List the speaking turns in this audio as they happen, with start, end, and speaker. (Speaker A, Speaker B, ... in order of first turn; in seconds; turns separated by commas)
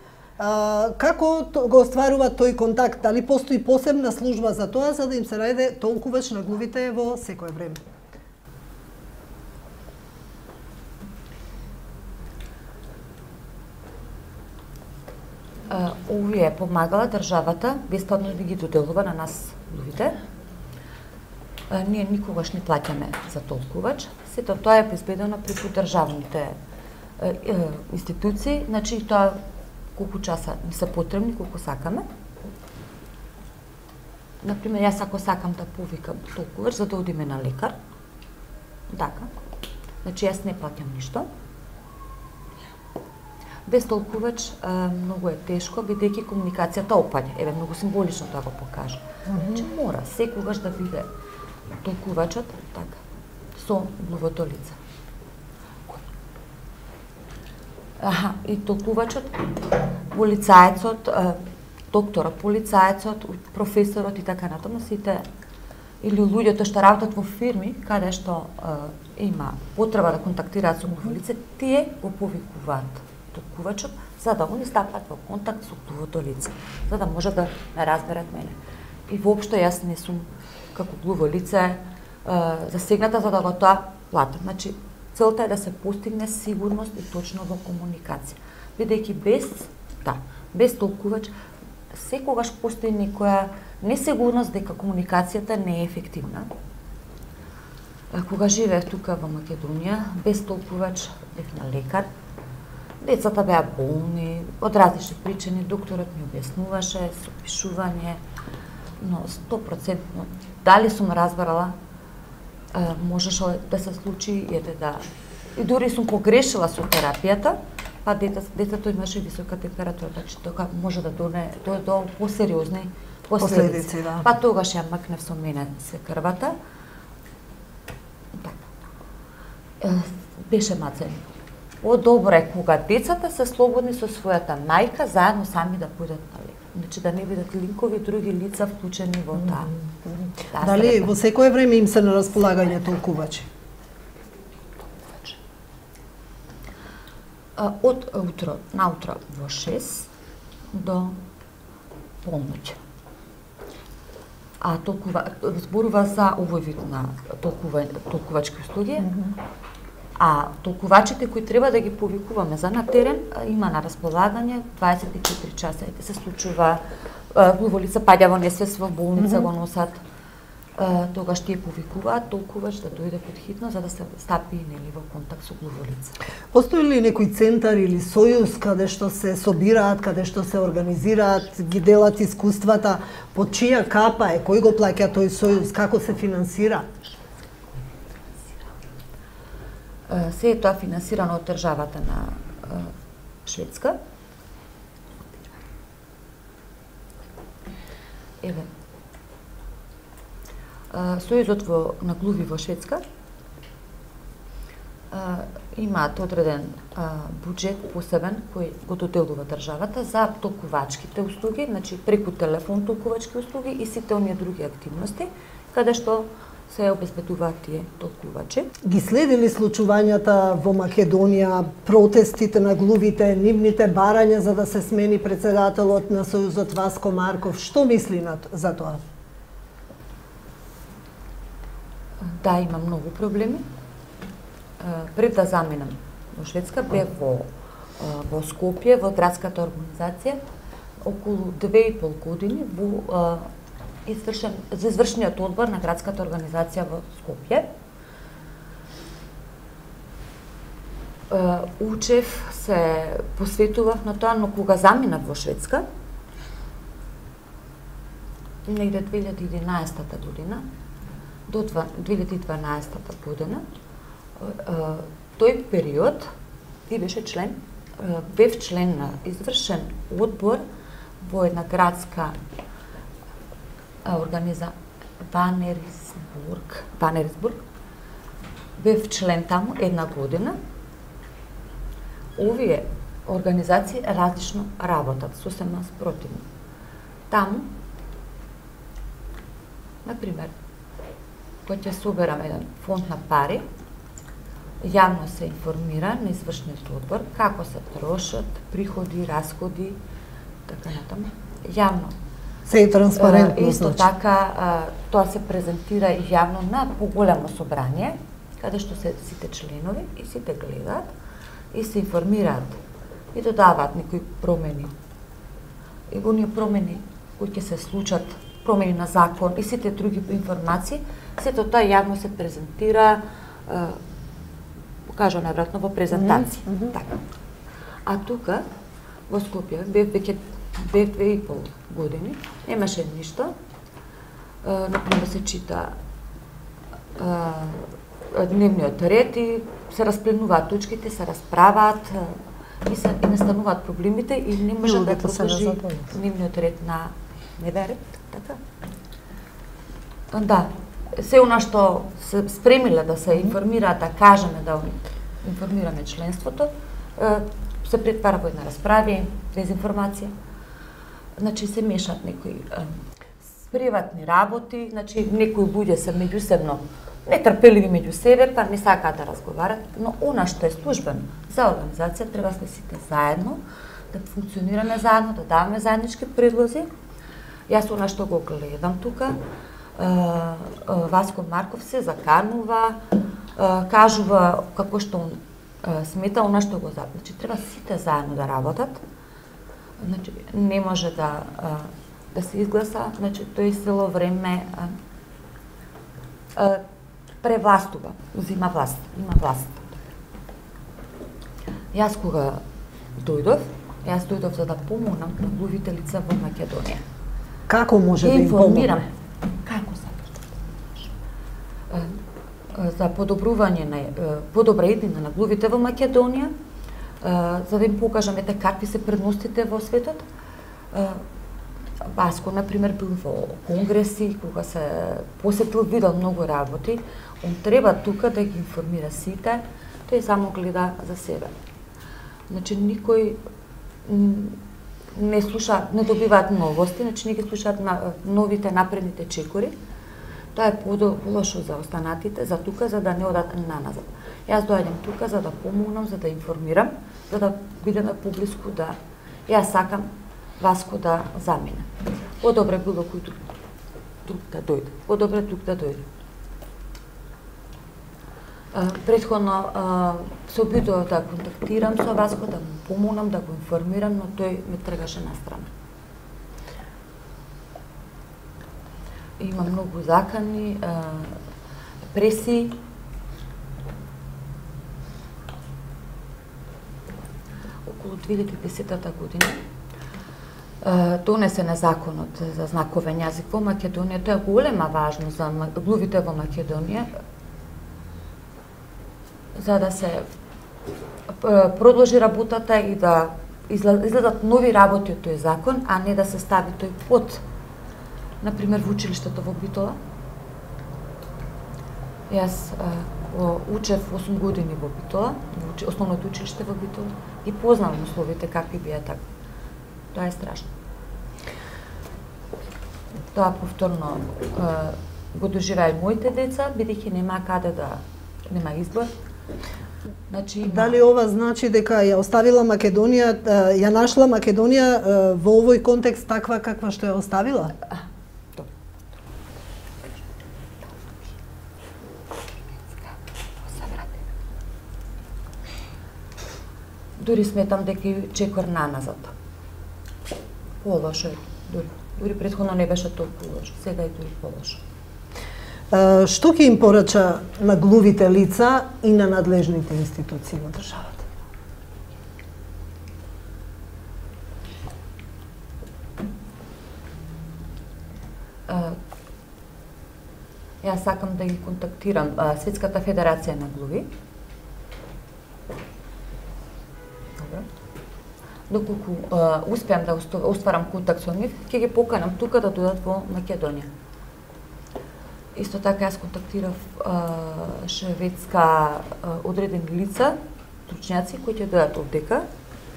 Speaker A: 0.4-7.8, Speaker B: 15.7-20.2, Speaker B: 21.7-26.6, Speaker B: 27.2-29.4, Speaker B: 29.9-32.0, Speaker B: 34.4-37.7, Speaker B: 38.9-39.3, Speaker B: 40.0-41.3, Speaker B: 43.7-51.1, Speaker A: 49.3-49.6, Speaker B: 51.8-53.0, Speaker B: 53.5-54.8, Speaker B: 58.0-59.4, Speaker B: 60.1-65.2, Speaker B: 66.0-78.6, Speaker B: 79.1-91.3, Speaker B: 91.9-96.5, Speaker B: 98.1-102.1, Speaker B: 103.0-108.2, Speaker B: 109.0-111.7, Speaker B: 112.7-126.5, Speaker A: 123.4-124.2, Speaker B: 128.3-128.7, Speaker B: 129.8-131.2, Speaker B: 131.8-139.7, Speaker A: 140.1-143.5, Speaker B: 140.5-141.2, Speaker B: 147.6-150.1, Speaker B: 150.7-151.2, Speaker B: 152.2-152.8, Speaker B: 154.6-159.2, Speaker B: 160.2-170.0, Speaker A: 169.2-169.5, Speaker B: 170.8-176.2, Speaker A: 176.5-186.8, Speaker B: 190.1-192.9, Speaker B: 193.4-194.0, Speaker B: 198.4-198.7, Speaker B: 200.9-203.0, Speaker B: 205.1-218.7, Speaker A: 218.8-229.0, Speaker B: 232.3-233.6, Speaker B: 234.8-240.4, Speaker B: 241.0-243.5, Speaker B: 244.1-247.7, Speaker B: 251.3-255.8, Speaker B: 258.6-260.6, Speaker B: 261.5-263.6, Speaker B: 264.4-266.3, Speaker B: 266.9-270.6, Speaker B: 271.2-272.4, Speaker B: 274.0-277.6, Speaker B: 278.8-280.6, Speaker B: 282.4-286.4, Speaker B: 287.3-287.7, Speaker B: 290.0-290.5, Speaker B: 291.6-293.6, Speaker B: 294.8-300.0, Speaker B: 300.6-302.1, Speaker A: 302.6-304.0, Speaker B: 303.1-311.1, Speaker B: 311.7-312.8, Speaker B: 313.3-314.9, Speaker B: 316.1-324.0, Speaker B: 325.1-327.2, Speaker A: 326.1-326.9, Speaker B: 328.0-328.6, Speaker B: 329.3-333.5, Speaker B: 334.6-335.9, Speaker B: 337.2-348.6, Speaker A: 344.8-346.1, Speaker B: 350.3-360.3, Speaker B: 361.4-362.9, Speaker B: 363.6-376.9, Speaker B: 377.7-379.4, Speaker B: 379.9-383.0, Speaker B: 383.6-389.0, Speaker B: 390.0-394.9, Speaker B: 396.5-396.8, Speaker B: 397.4-400.0, Speaker B: 401.9-402.6, Speaker B: 403.1-407.0, Speaker A: 407.7-409.0, Speaker B: 408.2-409.1, Speaker B: 409.6-411.1, Speaker B: 411.9-412.2, Speaker B: 412.7-416.5, Speaker B: 417.2-420.2, Speaker B: 420.9-421.2, Speaker B: 422.0-431.5, Speaker B: 432.5-433.4, Speaker B: 434.1-434.6, Speaker B: 435.1-439.8, Speaker B: 440.5-450.1, Speaker B: 450.6-453.4, Speaker B: 454.2-456.1, Speaker B: 458.7-465.7, Speaker B: 469.4-471.4, Speaker B: 472.1-472.8, Speaker B: 477.8-479.6, Speaker B: 480.8-487.1, Speaker B: 489.5-490.2, Speaker B: 491.3-497.4, Speaker B: 498.4-500.0, Speaker B: 502.3-509.2, Speaker B: 510.1-510.7, Speaker B: 513.3-519.1, Speaker B: 520.3-521.0, Speaker A: 520.6-527.7, Speaker B: 533.6-534.2, Speaker B: 537.2-539.3, Speaker B: 540.8-544.8, Speaker A: 545.9-551.3, Speaker B: 558.7-559.0, Speaker B: 560.8-564.1, Speaker B: 567.4-567.7, Speaker B: 568.7-573.9, Speaker B: 575.5-582.5